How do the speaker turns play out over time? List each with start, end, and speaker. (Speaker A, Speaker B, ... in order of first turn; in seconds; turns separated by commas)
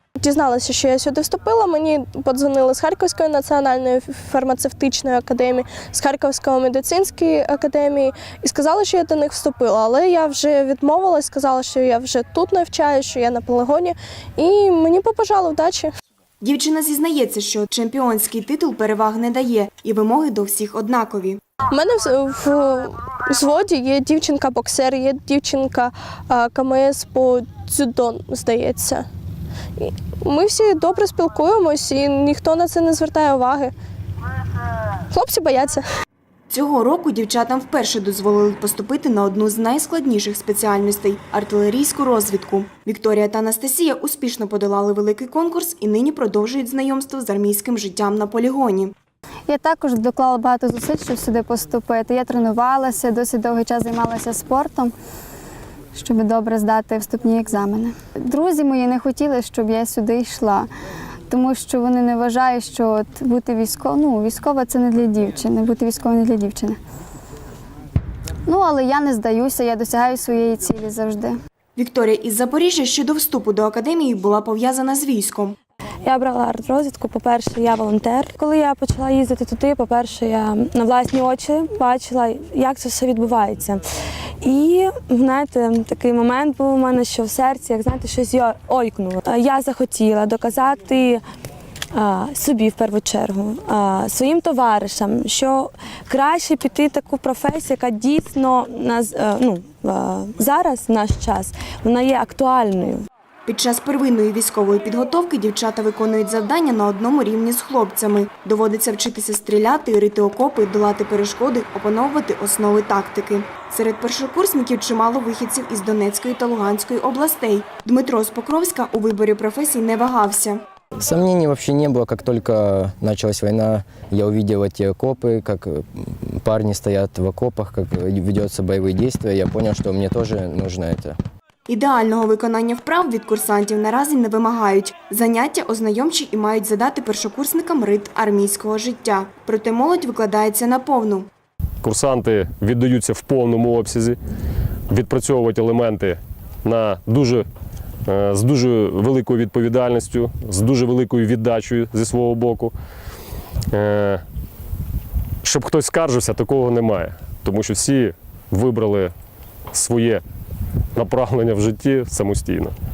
Speaker A: 0.2-15.9, Speaker B: 16.4-21.4, Speaker A: 21.7-29.1, Speaker A: 29.8-33.7, Speaker A: 35.1-35.9, Speaker B: 36.5-48.9, Speaker C: 49.5-54.9, Speaker C: 56.0-60.7, Speaker C: 61.3-66.8, Speaker C: 68.5-71.4, Speaker B: 71.8-75.6, Speaker D: 76.0-83.8, Speaker D: 84.4-91.2, Speaker D: 91.9-103.0, Speaker B: 103.5-120.6, Speaker E: 121.0-131.2, Speaker B: 131.7-141.3, Speaker F: 141.8-144.2, Speaker F: 144.9-147.5, Speaker F: 148.1-152.7, Speaker F: 153.7-154.2, Speaker F: 155.4-159.1, Speaker F: 159.7-160.2, Speaker F: 161.0-162.8